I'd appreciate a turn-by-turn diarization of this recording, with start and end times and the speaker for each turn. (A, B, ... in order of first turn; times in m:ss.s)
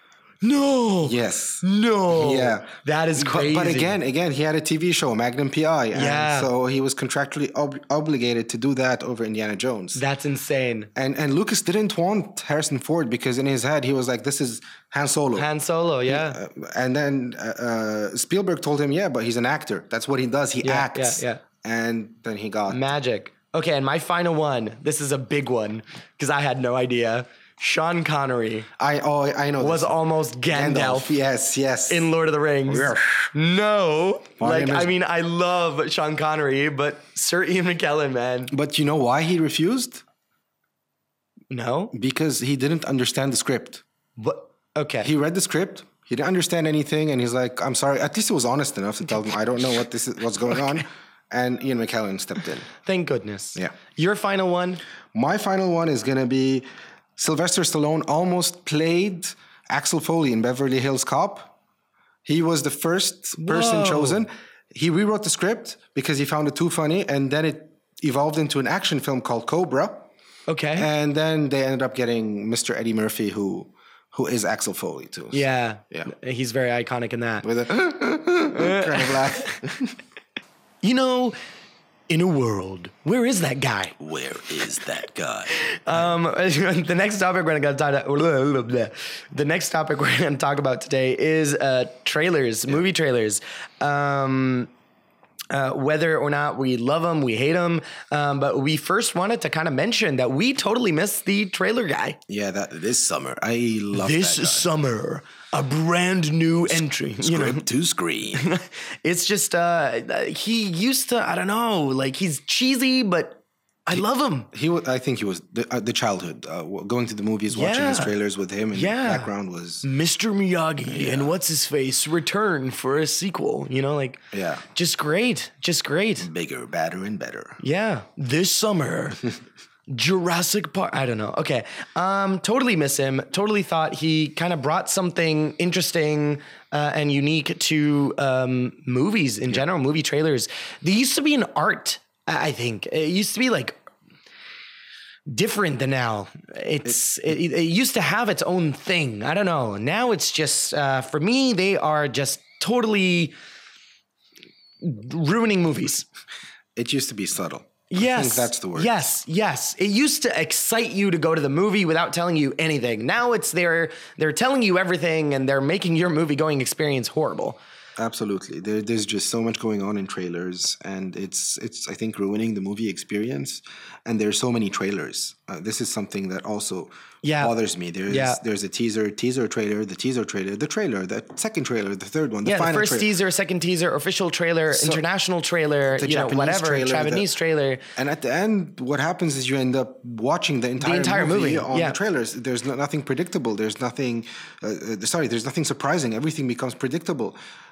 0:00.4-0:04.0 A
0:01.0-0:10.0 B
0:05.9-0:06.5 A
0:09.9-0:10.9 A
0:10.9-0:15.5 B
0:15.4-0:16.4 A
0:16.0-0:22.8 B
0:20.6-0:21.4 A
0:22.7-0:28.7 A
0:28.8-0:29.9 B
0:29.6-0:31.1 A
0:30.5-0:32.1 B
0:31.9-0:38.5 A
0:32.7-0:33.1 B
0:34.4-0:34.9 B
0:38.5-0:40.0 B
0:41.5-0:41.9 A
0:41.9-0:43.8 B
0:44.2-0:45.1 A
0:45.0-0:52.7 B
0:52.8-0:54.8 A
0:55.1-0:56.6 B
0:57.2-1:01.5 B
1:02.2-1:10.1 B
1:03.4-1:04.2 A
1:10.5-1:10.9 A
1:10.8-1:16.1 B
1:15.3-1:17.5 A
1:17.4-1:19.9 B
1:18.5-1:19.6 A
1:20.8-1:21.4 A
1:22.1-1:24.0 A
1:24.0-1:26.1 B
1:25.5-1:34.7 A
1:35.5-1:42.2 A
1:42.3-1:44.7 B
1:43.9-1:47.6 A
1:46.7-1:48.4 B
1:48.3-1:54.5 A
1:53.9-1:59.8 B
1:57.5-1:58.1 A
1:58.7-1:59.3 A
1:59.8-2:04.2 A
2:00.8-2:01.3 B
2:04.3-2:04.6 B
2:04.7-2:06.3 A
2:06.2-2:07.6 B
2:07.6-2:09.3 A
2:09.9-2:23.8 A
2:25.3-2:33.3 A
2:34.8-2:36.1 A
2:36.8-2:39.1 B
2:37.9-2:47.6 A
2:48.0-3:03.1 B
2:57.2-2:57.5 A
2:58.1-2:58.4 A
3:02.4-3:07.8 A
3:04.7-3:05.0 B
3:05.9-3:07.3 B
3:08.0-3:17.4 B
3:10.8-3:12.0 A